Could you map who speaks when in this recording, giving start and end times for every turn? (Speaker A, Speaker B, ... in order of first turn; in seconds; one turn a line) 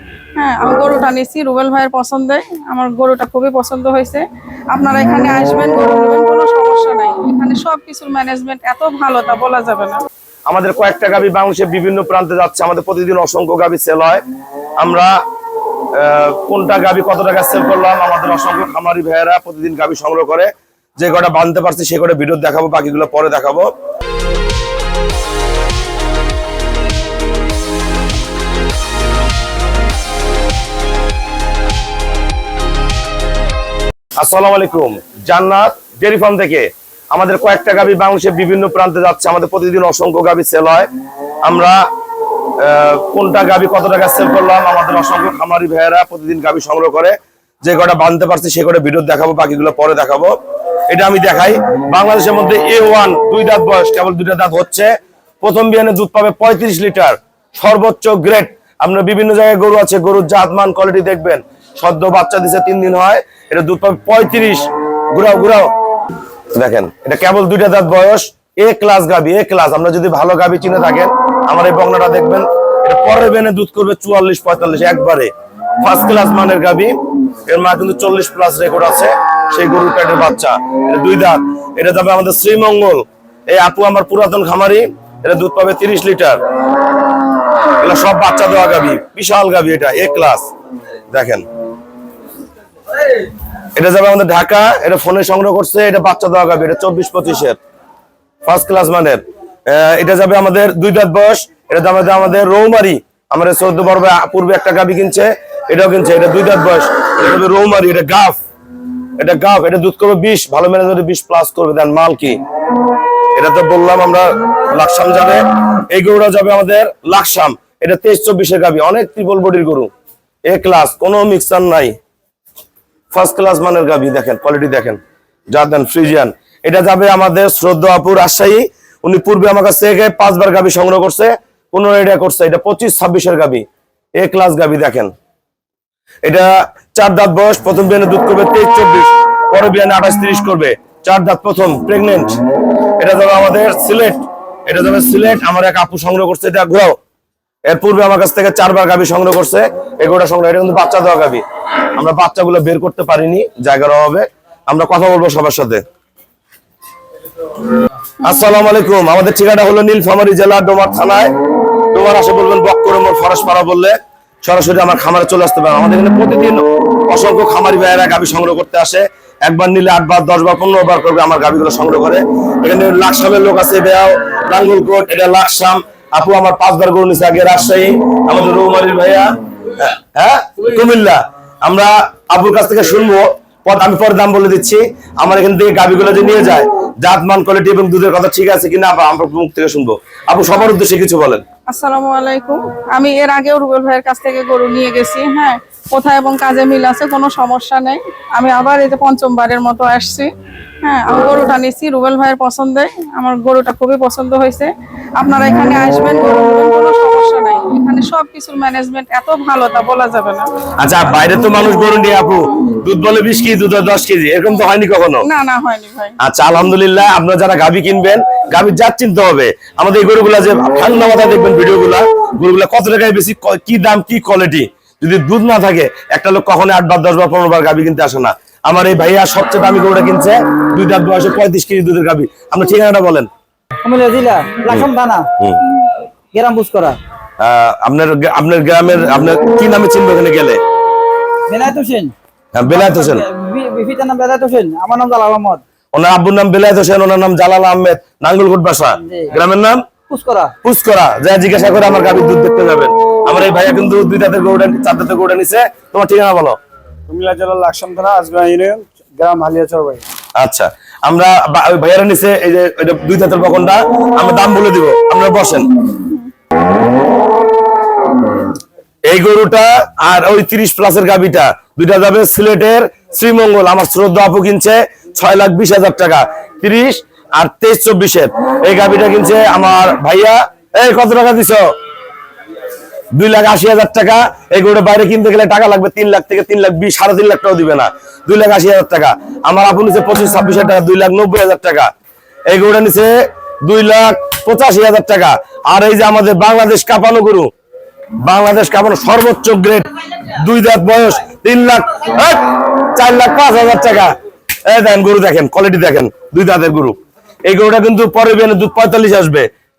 Speaker A: 0.4-10.1
Speaker B: 10.5-14.2
Speaker B: 14.8-15.1
Speaker B: 15.9-23.7
Speaker B: 34.2-40.9
Speaker B: 41.5-41.8
Speaker B: 42.6-50.3
Speaker B: 50.9-65.7
Speaker B: 66.5-86.4
Speaker B: 87.8-90.5
Speaker B: 91.1-91.5
Speaker B: 93.8-97.6
Speaker B: 98.4-108.4
Speaker B: 109.2-112.4
Speaker B: 113.3-119.9
Speaker B: 120.5-122.0
Speaker B: 123.1-125.0
Speaker B: 125.5-133.7
Speaker B: 134.2-135.1
Speaker B: 136.2-142.3
Speaker B: 143.0-147.0
Speaker B: 147.7-155.8
Speaker B: 158.2-161.3
Speaker B: 161.9-191.4
Speaker A: 191.7-200.3
Speaker A: 200.8-210.5
Speaker B: 210.8-215.3
Speaker A: 215.2-216.2
Speaker B: 216.2-233.3
Speaker C: 233.8-235.3
Speaker B: 234.7-235.6
Speaker C: 236.3-237.0
Speaker B: 237.4-240.6
Speaker C: 241.5-242.1
Speaker B: 242.6-243.2
Speaker C: 242.7-245.6
Speaker B: 245.9-249.8
Speaker C: 249.0-249.4
Speaker C: 250.1-250.5
Speaker B: 250.6-256.6
Speaker D: 257.1-260.0
Speaker B: 260.4-265.7
Speaker B: 269.1-281.6
Speaker B: 283.1-291.9
Speaker B: 292.5-293.1
Speaker B: 293.6-297.5
Speaker B: 298.2-304.1
Speaker B: 304.7-309.5